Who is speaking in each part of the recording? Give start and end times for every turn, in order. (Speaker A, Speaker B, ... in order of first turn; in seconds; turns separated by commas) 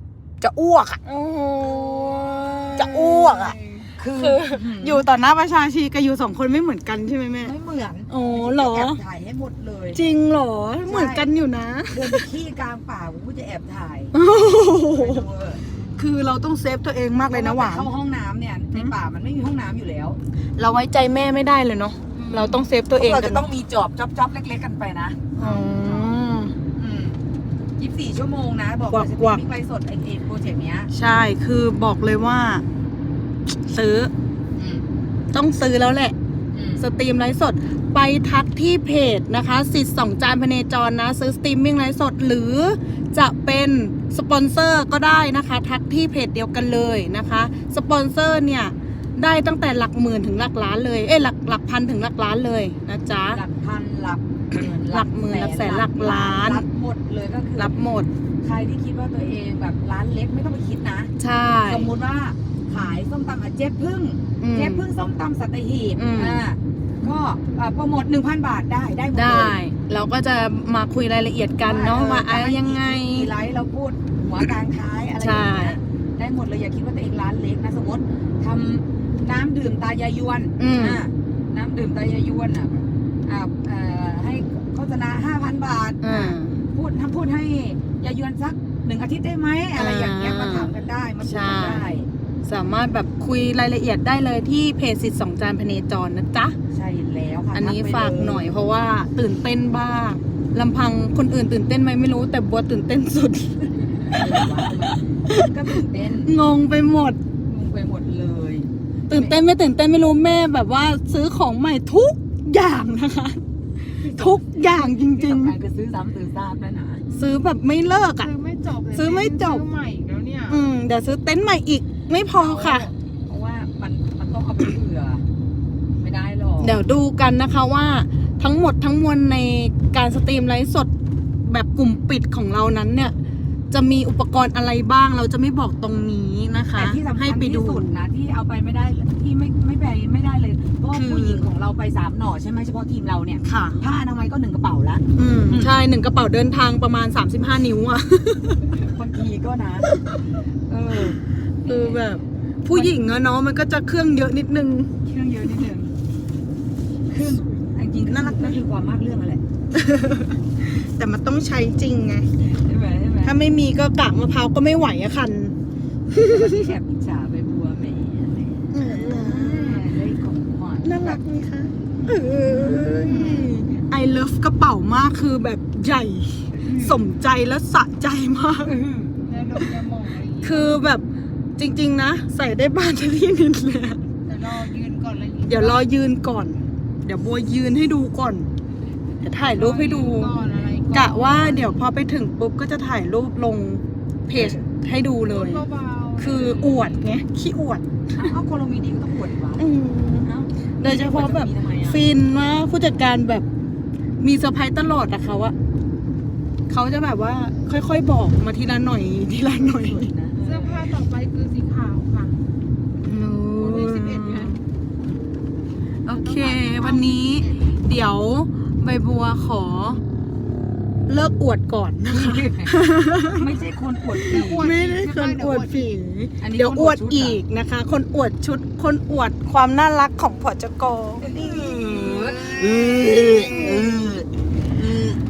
Speaker A: 0.4-1.0, Speaker B: 1.0-3.6, Speaker A: 2.8-3.2, Speaker C: 2.8-3.9, Speaker A: 4.0-5.0, Speaker B: 4.1-7.5, Speaker A: 7.4-10.0, Speaker B: 8.1-9.0, Speaker B: 9.9-12.3, Speaker A: 10.9-11.3, Speaker A: 11.9-14.1, Speaker B: 14.1-15.3, Speaker A: 14.9-15.6, Speaker B: 15.9-17.9, Speaker A: 17.3-20.2, Speaker B: 20.6-23.5, Speaker C: 22.1-22.7, Speaker A: 23.0-25.2, Speaker B: 25.4-26.5, Speaker C: 25.4-26.2, Speaker A: 26.7-27.2, Speaker A: 27.8-30.9, Speaker B: 28.9-29.4, Speaker B: 30.9-32.6, Speaker B: 33.6-34.1, Speaker A: 34.6-34.9, Speaker B: 35.3-36.1, Speaker A: 36.5-36.9, Speaker B: 36.8-53.4, Speaker A: 53.3-57.8, Speaker B: 54.5-56.6, Speaker B: 57.6-58.1, Speaker A: 58.4-61.1, Speaker B: 61.2-61.9, Speaker A: 61.6-69.6, Speaker B: 64.4-64.9, Speaker B: 66.0-66.5, Speaker B: 69.1-73.3, Speaker A: 71.6-92.1, Speaker B: 75.2-75.8, Speaker B: 80.6-81.0, Speaker B: 86.0-86.6, Speaker B: 89.8-91.9, Speaker B: 92.4-96.6, Speaker A: 96.7-98.6, Speaker B: 97.5-104.6, Speaker A: 103.8-106.3, Speaker B: 105.3-107.2, Speaker A: 107.5-109.4, Speaker B: 109.1-113.4, Speaker A: 114.0-117.0, Speaker B: 114.0-115.6, Speaker C: 117.1-117.5, Speaker B: 117.1-118.3, Speaker C: 118.2-120.7, Speaker B: 118.9-119.7, Speaker B: 120.5-122.9, Speaker A: 122.3-125.2, Speaker A: 126.0-126.8, Speaker B: 126.6-130.9, Speaker B: 131.5-133.1, Speaker B: 133.7-137.9, Speaker A: 136.8-145.7, Speaker B: 140.9-141.4, Speaker B: 143.4-143.8, Speaker B: 145.2-148.8, Speaker A: 148.6-149.9, Speaker A: 150.7-152.1, Speaker B: 151.6-154.9, Speaker A: 152.7-153.0, Speaker A: 155.0-155.9, Speaker A: 157.1-159.4, Speaker B: 158.0-158.6, Speaker B: 159.7-162.3, Speaker A: 162.5-163.4, Speaker B: 163.2-165.5, Speaker A: 166.1-171.2, Speaker B: 166.1-166.8, Speaker B: 168.7-169.9, Speaker B: 170.8-178.7, Speaker A: 171.9-173.5, Speaker A: 176.6-177.0, Speaker A: 178.6-179.1, Speaker C: 179.2-180.8, Speaker B: 180.4-181.0, Speaker B: 181.6-184.0, Speaker C: 184.2-185.9, Speaker B: 185.5-188.5, Speaker B: 189.2-190.4, Speaker C: 189.5-191.8, Speaker B: 190.9-195.6, Speaker A: 194.3-194.7, Speaker C: 195.3-197.1, Speaker B: 196.2-198.3, Speaker A: 198.1-199.7, Speaker B: 199.6-203.5, Speaker A: 200.2-202.1, Speaker B: 204.2-205.5, Speaker B: 206.7-210.1, Speaker A: 209.8-210.9, Speaker C: 210.4-212.4, Speaker B: 213.0-214.6, Speaker C: 213.5-214.6, Speaker B: 216.1-220.0, Speaker C: 216.1-217.7, Speaker B: 221.1-223.5, Speaker A: 222.1-224.7, Speaker B: 224.2-234.2, Speaker C: 224.3-225.9, Speaker A: 226.4-227.4, Speaker A: 231.2-235.2, Speaker C: 233.4-233.8